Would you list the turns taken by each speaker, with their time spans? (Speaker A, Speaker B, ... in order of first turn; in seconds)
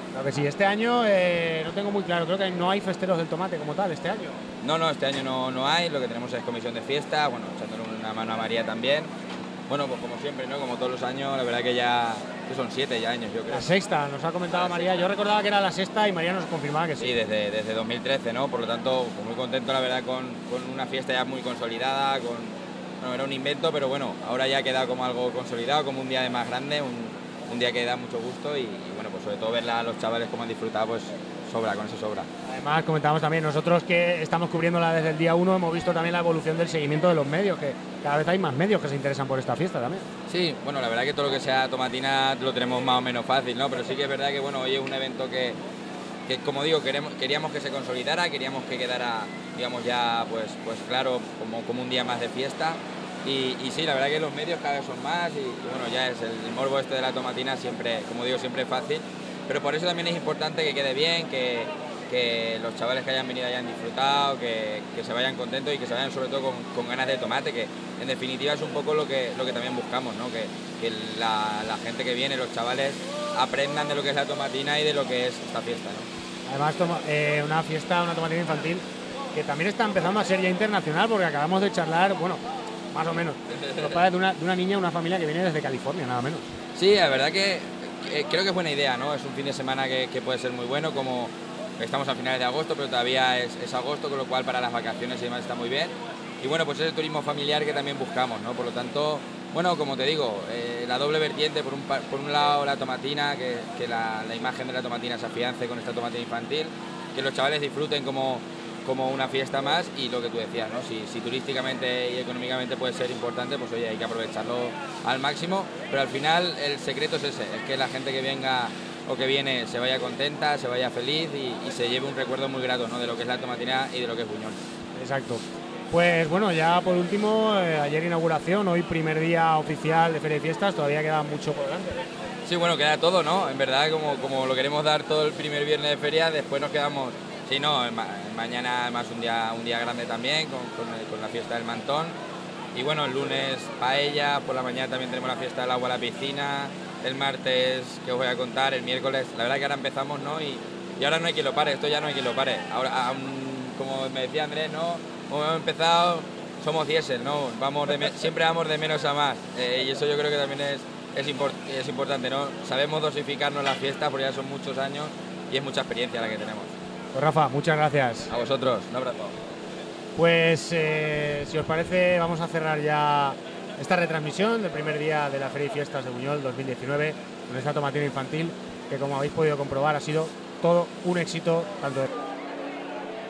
Speaker A: 0.1-4.4, 13.5-17.1, 32.5-40.0, 76.5-86.5, 125.0-132.1, 167.1-168.3, 170.2-182.1
Speaker B: 4.6-9.1, 9.7-13.7, 14.5-14.9, 17.0-32.3, 40.3-45.6, 46.3-76.1, 83.5-84.0, 86.8-124.6, 132.4-142.2, 142.7-166.7, 168.3-169.4